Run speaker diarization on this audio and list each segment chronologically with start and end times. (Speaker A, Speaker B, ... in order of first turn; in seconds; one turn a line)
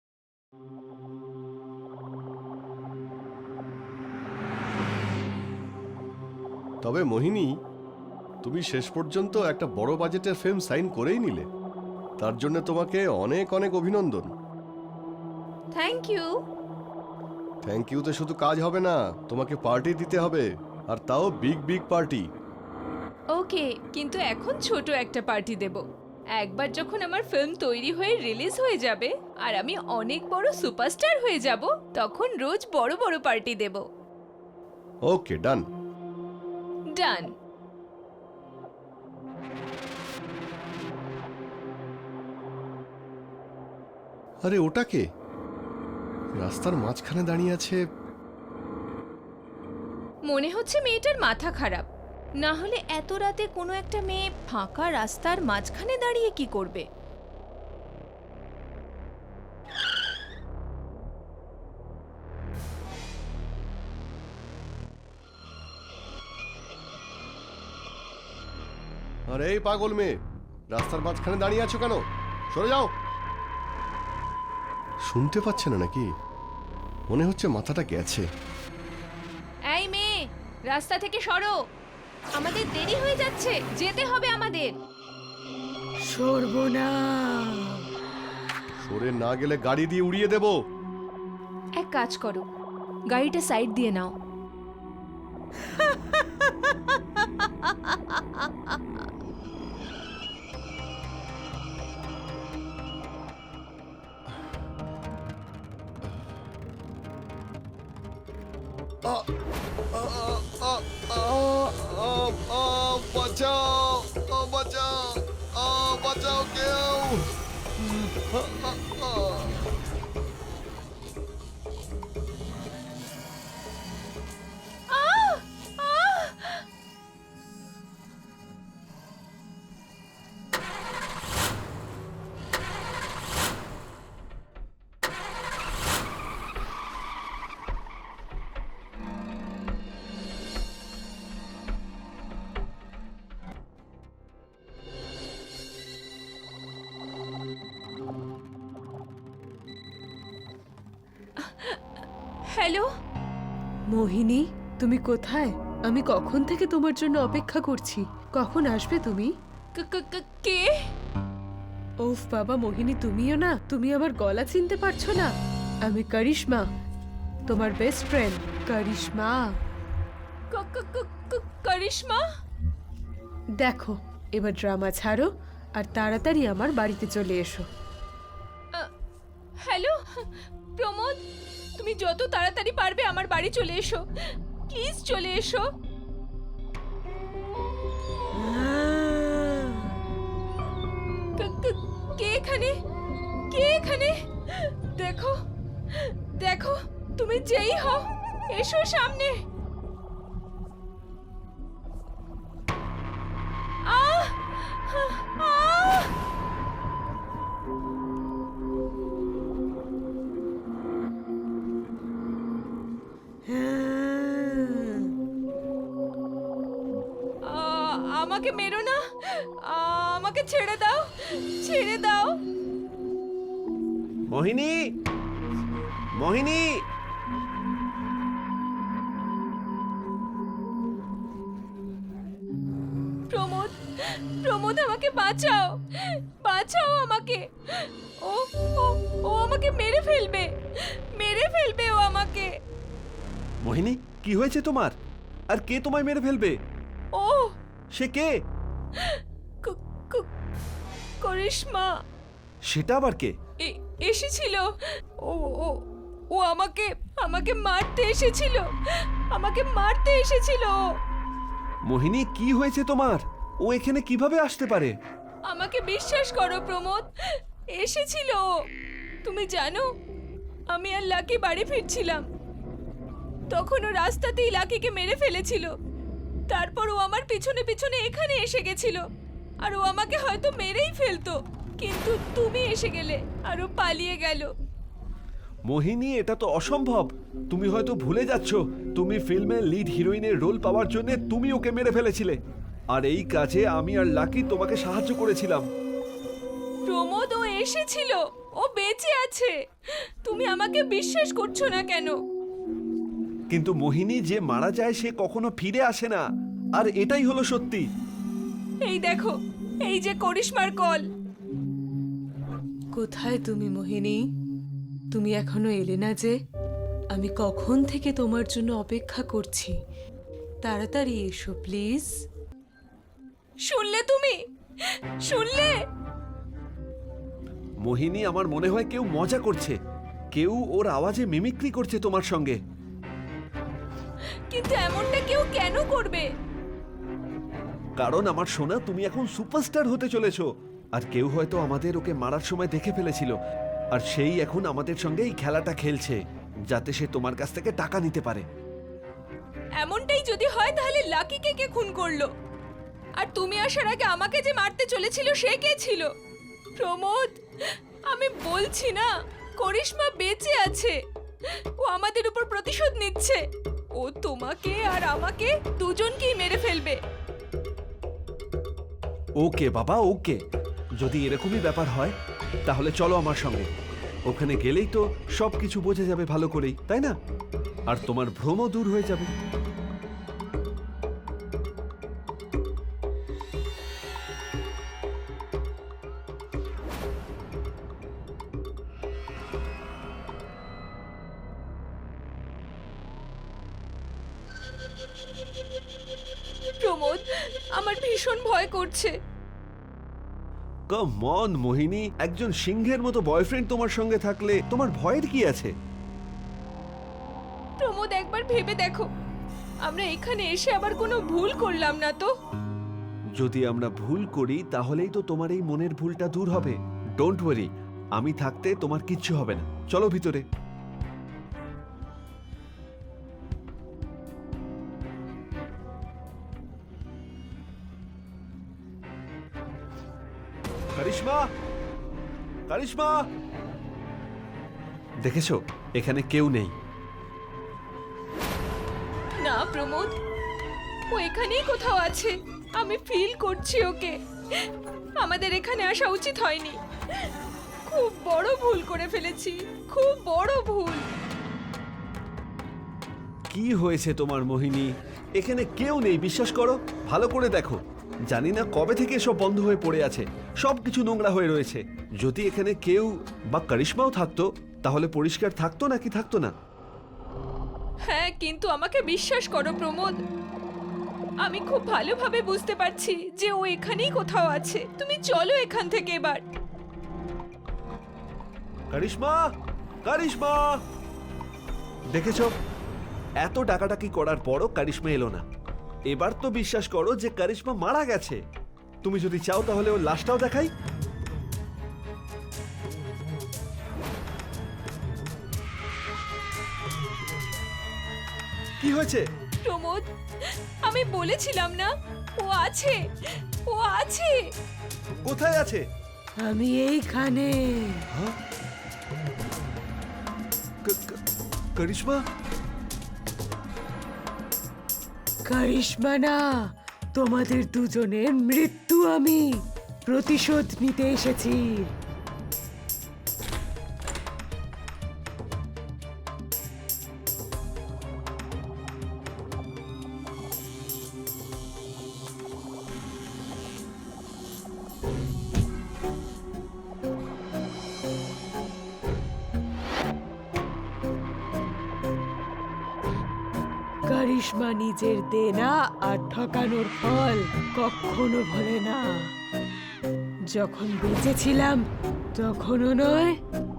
Speaker A: 6.8-7.5
Speaker A: 8.4-11.4
Speaker A: 12.2-14.3
Speaker B: 15.7-16.4
Speaker A: 17.6-22.2
Speaker B: 23.3-25.8
Speaker B: 26.4-33.8
Speaker A: 35.1-35.6
Speaker B: 36.9-37.3
Speaker A: 44.4-45.0
Speaker A: 46.4-47.8
Speaker B: 50.3-51.9
Speaker B: 52.4-56.8
Speaker A: 69.3-70.2
Speaker A: 70.7-72.9
Speaker A: 75.1-76.0
Speaker A: 77.1-78.2
Speaker B: 79.7-81.5
Speaker B: 82.3-84.7
Speaker C: 86.1-87.7
Speaker A: 88.8-90.5
Speaker B: 91.8-92.4
Speaker B: 93.1-94.1
Speaker A: 109.9-117.2
Speaker A: 117.8-119.5
Speaker B: 124.9-126.6
Speaker B: 151.4-151.8
Speaker B: 152.5-152.9
Speaker C: 153.9-159.3
Speaker B: 159.8-160.8
Speaker C: 162.0-165.3
Speaker C: 165.8-166.6
Speaker C: 167.5-169.4
Speaker B: 170.5-172.2
Speaker C: 173.6-177.7
Speaker B: 179.6-181.2
Speaker B: 181.8-184.0
Speaker B: 184.7-185.7
Speaker C: 188.3-189.9
Speaker B: 191.4-192.7
Speaker B: 193.5-195.4
Speaker B: 195.9-199.3
Speaker B: 203.8-206.1
Speaker C: 213.5-215.1
Speaker B: 217.4-222.3
Speaker D: 224.3-224.8
Speaker D: 226.2-226.7
Speaker B: 233.3-242.5
Speaker D: 243.6-244.9
Speaker D: 245.5-246.6
Speaker B: 247.1-247.5
Speaker D: 247.9-248.3
Speaker B: 249.0-250.2
Speaker B: 251.2-251.9
Speaker D: 252.7-253.3
Speaker B: 253.6-254.7
Speaker B: 255.2-255.8
Speaker B: 256.3-258.7
Speaker B: 259.3-260.8
Speaker D: 261.9-264.9
Speaker B: 265.5-267.1
Speaker B: 267.8-268.5
Speaker B: 269.2-269.9
Speaker B: 270.7-272.2
Speaker B: 273.5-275.7
Speaker B: 276.5-279.0
Speaker B: 279.6-284.5
Speaker D: 285.7-292.4
Speaker D: 292.9-295.6
Speaker B: 296.9-299.5
Speaker B: 300.2-302.1
Speaker D: 303.5-306.2
Speaker D: 306.8-307.9
Speaker B: 308.8-309.3
Speaker B: 309.8-311.1
Speaker C: 312.9-314.2
Speaker C: 315.1-316.3
Speaker C: 317.1-319.7
Speaker C: 320.6-322.1
Speaker B: 323.7-324.4
Speaker B: 325.2-325.7
Speaker D: 327.8-329.8
Speaker D: 330.3-332.6
Speaker B: 334.5-336.3
Speaker D: 338.0-343.3
Speaker D: 343.9-346.2
Speaker D: 346.7-348.4
Speaker B: 349.8-352.3
Speaker B: 353.2-356.1
Speaker B: 356.8-357.4
Speaker B: 358.1-360.9
Speaker B: 361.8-363.4
Speaker B: 363.9-367.0
Speaker D: 369.4-370.4
Speaker D: 371.0-372.1
Speaker D: 372.7-373.7
Speaker D: 374.3-377.1
Speaker D: 377.9-379.3
Speaker B: 396.8-399.1
Speaker D: 400.9-405.7
Speaker B: 407.8-409.1
Speaker B: 409.8-412.3
Speaker D: 413.4-420.4
Speaker D: 430.9-431.4
Speaker D: 432.7-433.2
Speaker D: 435.2-436.7
Speaker B: 439.4-440.1
Speaker B: 441.1-444.7
Speaker B: 445.2-447.3
Speaker B: 447.9-451.0
Speaker D: 453.5-457.8
Speaker D: 458.3-466.5
Speaker B: 468.1-470.2
Speaker B: 471.4-476.4
Speaker D: 478.9-479.4
Speaker D: 480.0-480.6
Speaker D: 482.1-482.5
Speaker D: 483.4-485.4
Speaker D: 486.1-488.4
Speaker D: 489.0-490.7
Speaker D: 498.8-499.2
Speaker B: 499.6-503.0
Speaker B: 503.7-504.4
Speaker D: 505.2-505.8
Speaker C: 506.4-508.0
Speaker D: 510.8-511.2
Speaker D: 511.8-512.2
Speaker C: 515.5-516.4
Speaker C: 517.1-519.4
Speaker C: 520.1-521.9
Speaker C: 544.1-549.0
Speaker C: 550.5-551.8
Speaker C: 552.3-553.4